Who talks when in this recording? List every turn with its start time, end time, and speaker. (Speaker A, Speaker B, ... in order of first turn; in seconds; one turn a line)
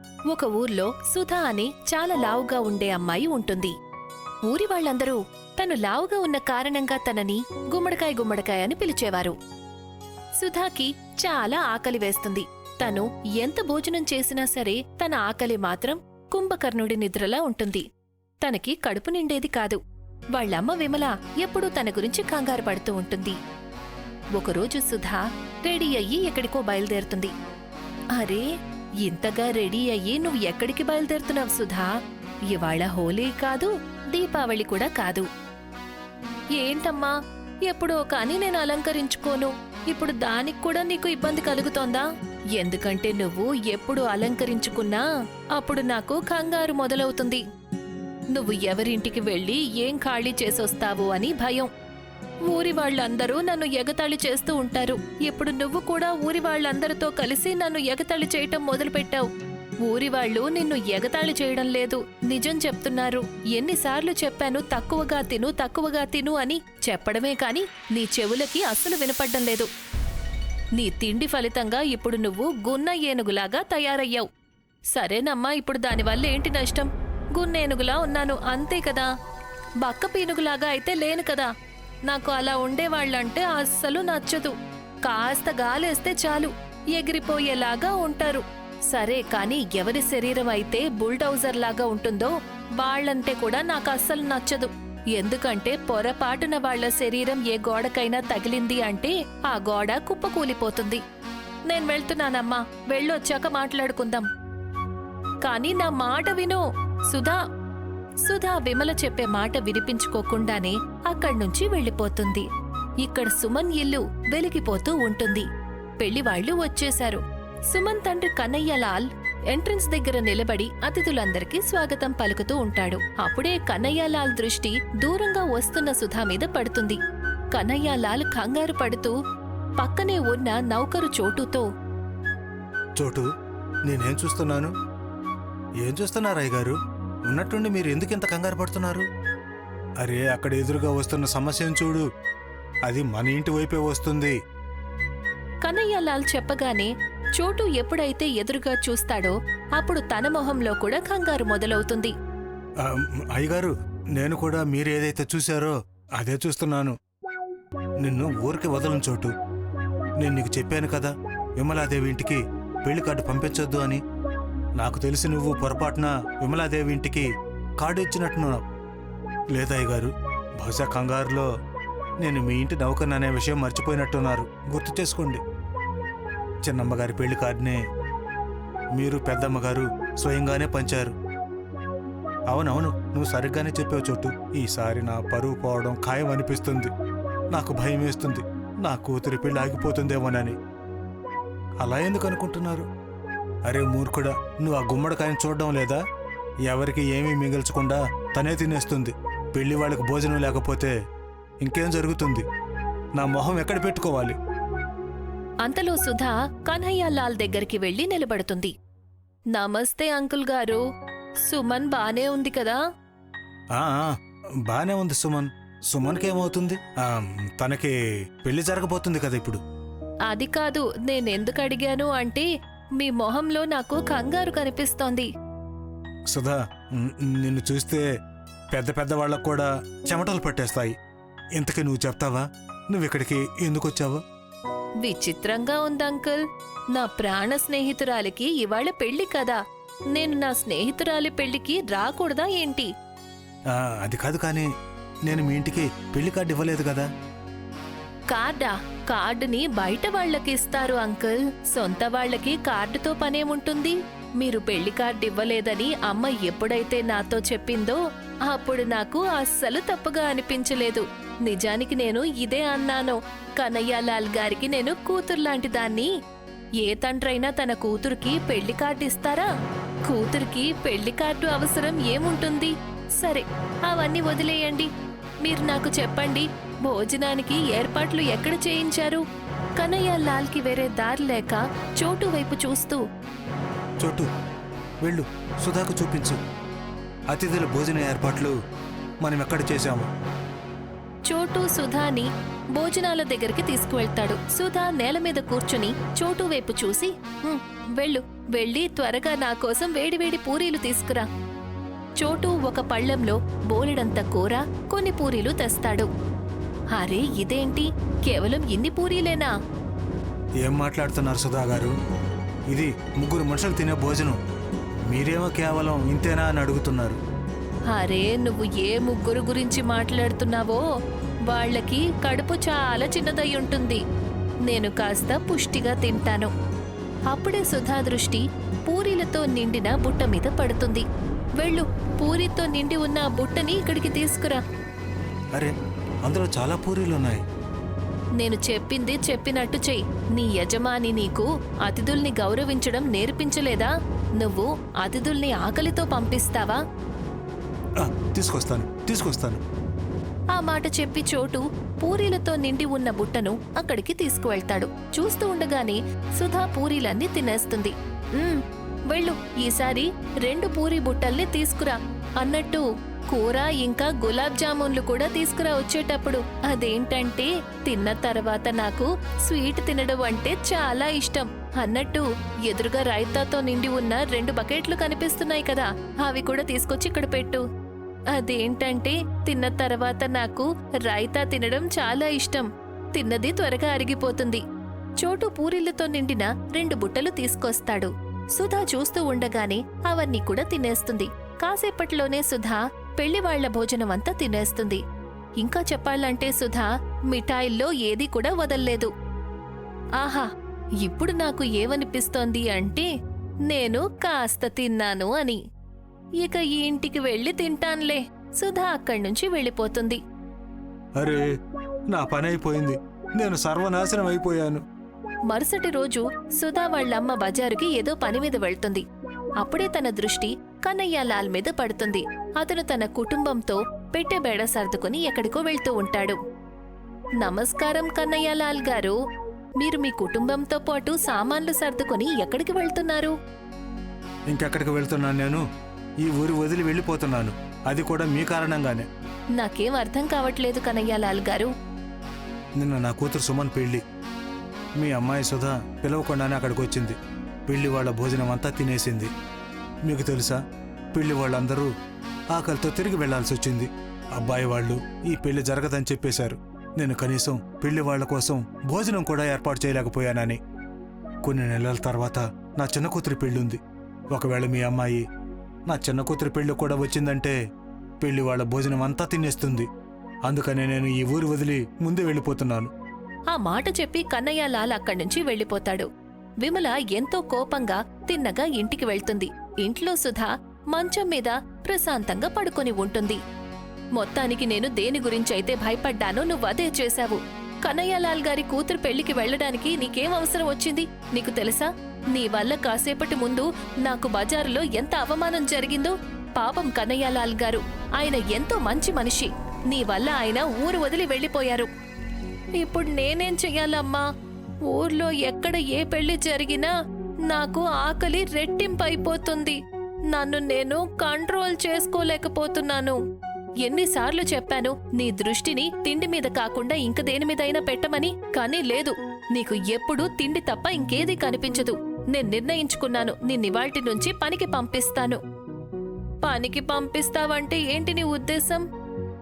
Speaker A: 0.3-3.7
Speaker A: 4.5-9.4
Speaker A: 10.4-17.9
Speaker A: 18.4-19.8
Speaker A: 20.3-23.4
Speaker A: 24.4-27.3
Speaker A: 28.1-28.5
Speaker A: 29.0-31.9
Speaker A: 32.5-35.3
Speaker A: 36.6-37.1
Speaker A: 37.7-45.0
Speaker A: 45.6-47.4
Speaker A: 48.3-51.7
Speaker A: 52.5-59.3
Speaker A: 59.8-69.7
Speaker A: 70.8-74.3
Speaker A: 74.9-79.1
Speaker A: 79.8-81.5
Speaker A: 82.1-101.0
Speaker A: 101.7-104.3
Speaker A: 105.4-107.4
Speaker A: 108.2-112.5
Speaker A: 113.0-115.5
Speaker A: 116.0-127.0
Speaker A: 127.5-129.2
Speaker A: 129.8-131.7
Speaker B: 133.0-133.3
Speaker B: 133.8-134.7
Speaker B: 135.8-139.1
Speaker B: 140.0-142.1
Speaker B: 142.9-144.4
Speaker A: 145.6-152.1
Speaker B: 152.8-156.9
Speaker B: 158.0-159.3
Speaker B: 160.2-164.0
Speaker B: 164.8-167.3
Speaker B: 167.8-168.6
Speaker B: 169.5-171.5
Speaker B: 172.2-175.4
Speaker B: 176.6-177.8
Speaker B: 178.9-181.1
Speaker B: 182.5-186.9
Speaker B: 187.5-190.6
Speaker B: 191.8-192.9
Speaker B: 193.7-196.0
Speaker B: 196.7-200.9
Speaker B: 201.6-202.5
Speaker B: 203.2-204.4
Speaker A: 205.6-208.7
Speaker A: 209.5-210.8
Speaker A: 211.4-212.8
Speaker B: 213.7-214.2
Speaker B: 214.7-219.6
Speaker A: 220.3-222.5
Speaker A: 223.0-225.3
Speaker B: 226.3-228.1
Speaker B: 228.7-230.9
Speaker B: 231.6-234.2
Speaker A: 235.0-236.4
Speaker A: 236.9-239.6
Speaker A: 240.1-242.9
Speaker B: 243.7-244.7
Speaker B: 245.3-247.1
Speaker A: 248.3-266.1
Speaker A: 266.8-269.5
Speaker A: 270.1-274.9
Speaker A: 275.4-279.2
Speaker A: 279.8-283.0
Speaker B: 284.0-284.3
Speaker B: 285.0-286.4
Speaker B: 287.3-288.6
Speaker B: 289.2-290.1
Speaker A: 291.3-301.3
Speaker A: 302.2-306.1
Speaker A: 306.9-309.5
Speaker B: 310.6-311.9
Speaker B: 312.7-314.4
Speaker B: 315.1-317.2
Speaker A: 317.9-320.8
Speaker A: 321.5-324.0
Speaker A: 324.7-326.5
Speaker A: 327.3-331.0
Speaker A: 331.6-334.6
Speaker B: 336.2-337.4
Speaker A: 338.4-346.8
Speaker B: 348.0-349.6
Speaker A: 350.5-377.6
Speaker A: 378.3-384.6
Speaker A: 385.2-395.0
Speaker A: 395.6-399.1
Speaker A: 400.2-400.5
Speaker A: 401.0-403.1
Speaker A: 403.7-405.6
Speaker A: 406.4-410.2
Speaker B: 411.2-411.4
Speaker B: 412.1-414.8
Speaker A: 415.5-419.0
Speaker A: 419.6-426.4
Speaker A: 427.4-429.2
Speaker A: 429.8-433.3
Speaker B: 434.5-435.6
Speaker B: 436.2-439.1
Speaker A: 439.6-441.7
Speaker B: 442.8-444.0
Speaker B: 445.0-449.3
Speaker B: 450.1-450.6
Speaker B: 451.1-451.9
Speaker B: 452.5-460.6
Speaker B: 461.4-463.8
Speaker B: 464.3-465.2
Speaker B: 465.9-467.6
Speaker B: 468.2-469.9
Speaker B: 470.5-472.9
Speaker A: 473.5-476.1
Speaker A: 476.6-483.4
Speaker A: 484.2-501.9
Speaker A: 502.8-504.2
Speaker A: 504.9-506.9
Speaker A: 507.5-509.8
Speaker A: 510.3-513.2
Speaker A: 513.8-525.4
Speaker A: 526.4-528.9